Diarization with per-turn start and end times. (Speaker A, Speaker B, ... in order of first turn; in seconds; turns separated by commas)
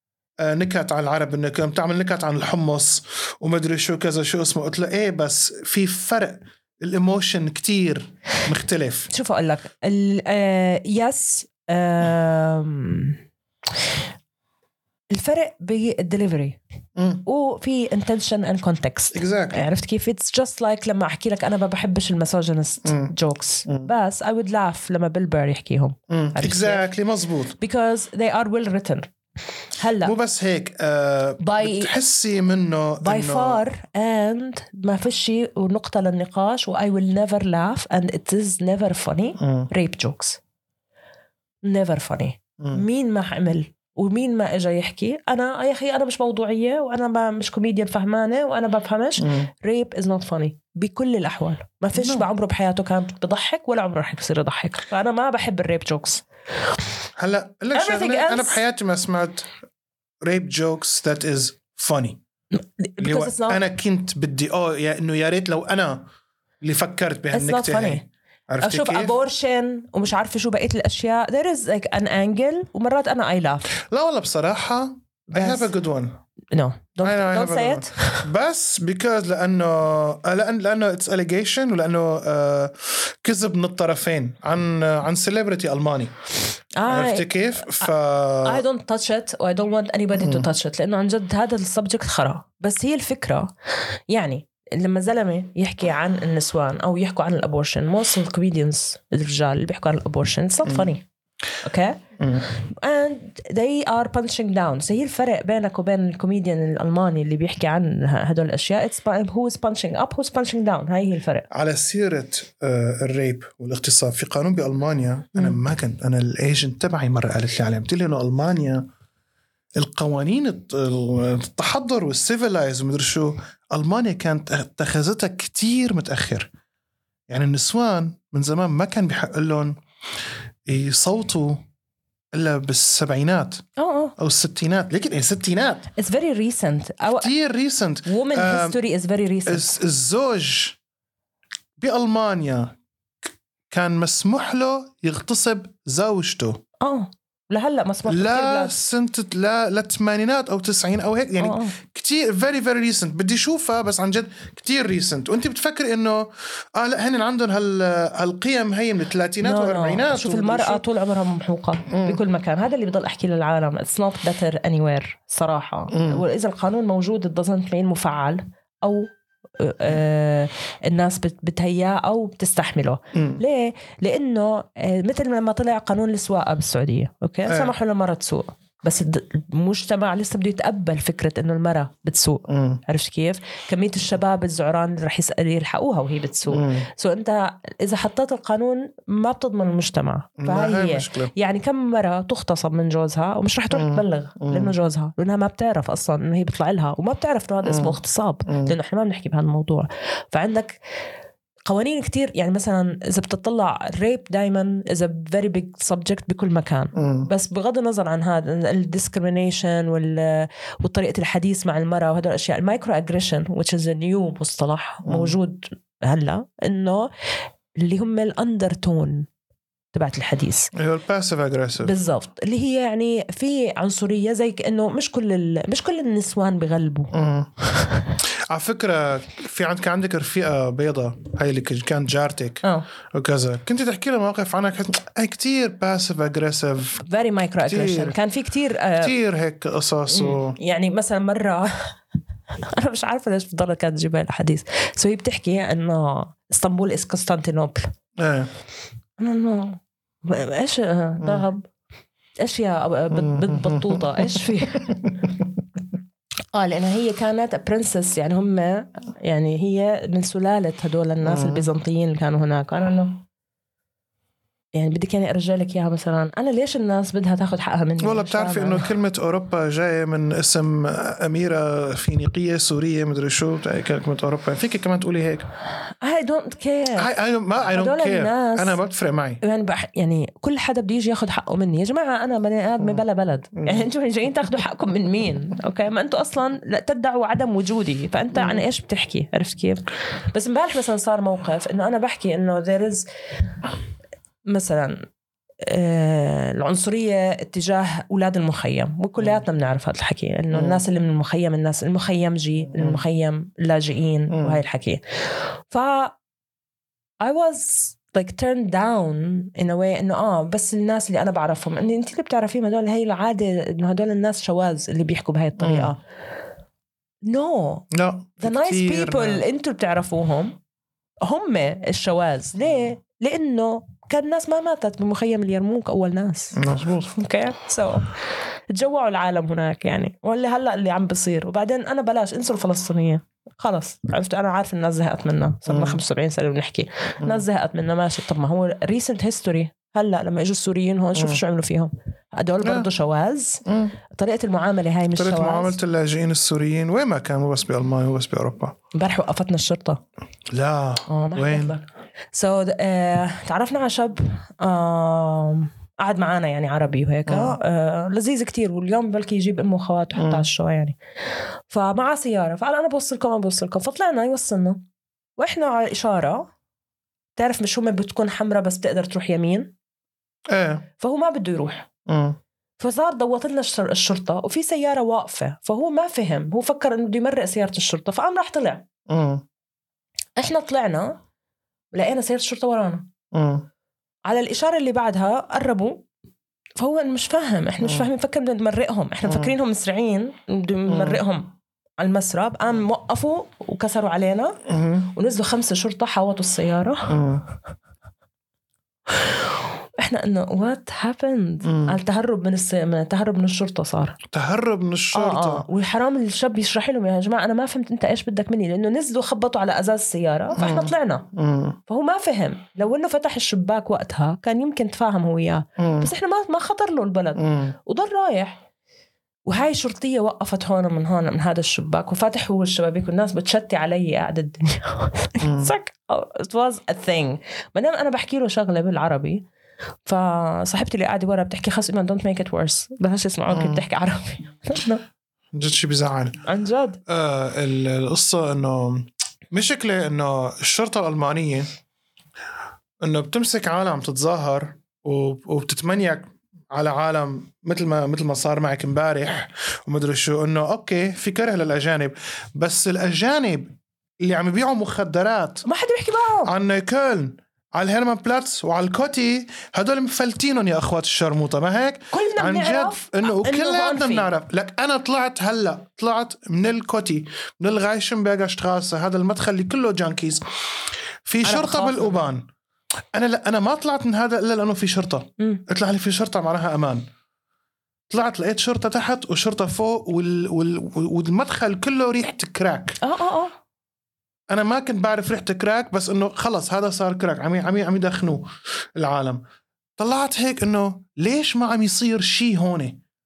Speaker A: 0.4-9.1, Speaker B: 9.1-13.2, Speaker B: 15.1-16.6, Speaker A: 17.0-17.2, Speaker B: 17.2-26.8, Speaker A: 19.1-19.7, Speaker A: 22.8-23.1, Speaker A: 26.1-27.6, Speaker B: 27.6-29.1, Speaker B: 29.8-30.1, Speaker A: 30.0-33.6, Speaker B: 31.4-31.9, Speaker B: 33.0-40.4, Speaker A: 39.4-39.7, Speaker B: 41.6-56.2, Speaker A: 49.2-49.5, Speaker A: 52.0-52.3, Speaker A: 57.2-59.5, Speaker B: 57.7-58.6, Speaker A: 60.2-62.2, Speaker B: 62.5-63.6, Speaker A: 63.0-66.1, Speaker A: 66.6-69.1, Speaker B: 67.3-68.0, Speaker B: 68.6-73.7, Speaker A: 73.9-76.2, Speaker B: 75.3-75.7, Speaker B: 76.5-78.3, Speaker A: 77.0-86.2, Speaker B: 86.8-87.9, Speaker A: 86.9-88.6, Speaker B: 88.4-93.5, Speaker A: 90.2-90.5, Speaker B: 94.1-101.0, Speaker A: 100.7-100.9, Speaker B: 101.6-102.0, Speaker A: 102.2-102.5, Speaker B: 102.6-111.5, Speaker A: 111.5-118.9, Speaker A: 119.8-126.5, Speaker A: 127.3-129.8, Speaker A: 130.7-131.6, Speaker A: 132.3-133.7, Speaker B: 133.8-134.1, Speaker A: 134.2-135.9, Speaker B: 136.0-137.3, Speaker A: 137.2-138.8, Speaker B: 138.1-139.8, Speaker A: 139.5-140.8, Speaker A: 141.8-142.8, Speaker A: 143.7-146.6, Speaker B: 146.8-148.8, Speaker A: 148.1-160.8, Speaker B: 151.4-151.7, Speaker B: 159.4-200.8, Speaker A: 161.9-162.2, Speaker A: 165.9-166.2, Speaker A: 173.1-173.4, Speaker A: 177.5-177.7, Speaker A: 182.5-182.8, Speaker A: 186.5-186.9, Speaker A: 190.4-191.3, Speaker A: 193.7-194.7, Speaker A: 197.6-197.9, Speaker A: 198.5-198.8, Speaker B: 201.7-217.1, Speaker A: 206.9-207.3, Speaker A: 215.1-215.4, Speaker B: 217.8-219.3, Speaker B: 219.9-220.7, Speaker A: 220.7-221.9, Speaker B: 221.8-227.1, Speaker A: 227.1-227.5, Speaker A: 228.2-237.0, Speaker B: 237.0-239.1, Speaker A: 237.7-238.2, Speaker A: 239.0-240.6, Speaker B: 240.1-241.9, Speaker B: 242.6-247.9, Speaker A: 248.2-248.5, Speaker B: 249.2-251.7, Speaker B: 252.4-254.9, Speaker A: 253.1-255.5, Speaker B: 256.5-263.2, Speaker A: 261.2-261.7, Speaker B: 264.7-268.9, Speaker A: 268.0-275.5, Speaker B: 276.0-277.1, Speaker A: 277.0-279.4, Speaker B: 277.7-278.8, Speaker B: 279.4-293.1, Speaker A: 283.6-283.9, Speaker A: 288.4-288.6, Speaker B: 294.5-295.0, Speaker B: 295.6-306.2, Speaker A: 300.5-300.8, Speaker A: 302.7-303.0, Speaker A: 304.3-304.6, Speaker B: 307.2-316.0, Speaker A: 315.6-315.9, Speaker B: 317.3-320.6, Speaker A: 317.9-319.4, Speaker B: 321.2-326.6, Speaker A: 326.5-327.2, Speaker B: 327.1-328.2, Speaker B: 328.7-345.8, Speaker A: 335.7-336.0, Speaker A: 341.1-341.4, Speaker A: 342.6-342.9, Speaker A: 343.7-344.0, Speaker A: 345.2-348.8, Speaker B: 348.9-350.0, Speaker A: 350.5-351.7, Speaker B: 351.1-361.0, Speaker A: 357.3-357.6, Speaker A: 360.2-360.5, Speaker B: 361.7-364.8, Speaker B: 365.4-366.5, Speaker B: 367.4-369.7, Speaker A: 370.5-370.9, Speaker B: 371.0-371.9, Speaker A: 372.1-372.4, Speaker B: 372.8-378.9, Speaker A: 379.1-379.4, Speaker B: 380.4-381.2, Speaker B: 381.9-383.1, Speaker A: 383.3-383.7, Speaker B: 384.3-386.1, Speaker B: 386.8-394.6, Speaker A: 389.3-389.6, Speaker A: 390.9-391.2, Speaker A: 394.7-395.1, Speaker B: 395.1-397.2, Speaker A: 397.1-397.4, Speaker B: 400.0-404.2, Speaker A: 401.6-402.0, Speaker A: 404.3-405.7, Speaker B: 405.1-411.3, Speaker A: 410.5-411.8, Speaker B: 411.9-418.6, Speaker A: 415.8-416.1, Speaker A: 417.4-417.8, Speaker B: 419.5-429.5, Speaker A: 425.4-425.7, Speaker B: 430.1-435.0, Speaker A: 433.5-433.9, Speaker A: 435.5-436.4, Speaker B: 436.5-437.0, Speaker A: 437.1-441.7, Speaker A: 443.0-455.6, Speaker B: 455.6-456.5, Speaker A: 456.5-470.4, Speaker B: 462.1-464.3, Speaker A: 471.3-472.5, Speaker B: 471.4-472.2, Speaker A: 473.1-477.0, Speaker A: 478.1-483.0, Speaker B: 483.0-483.5, Speaker A: 484.5-489.4, Speaker A: 490.0-493.0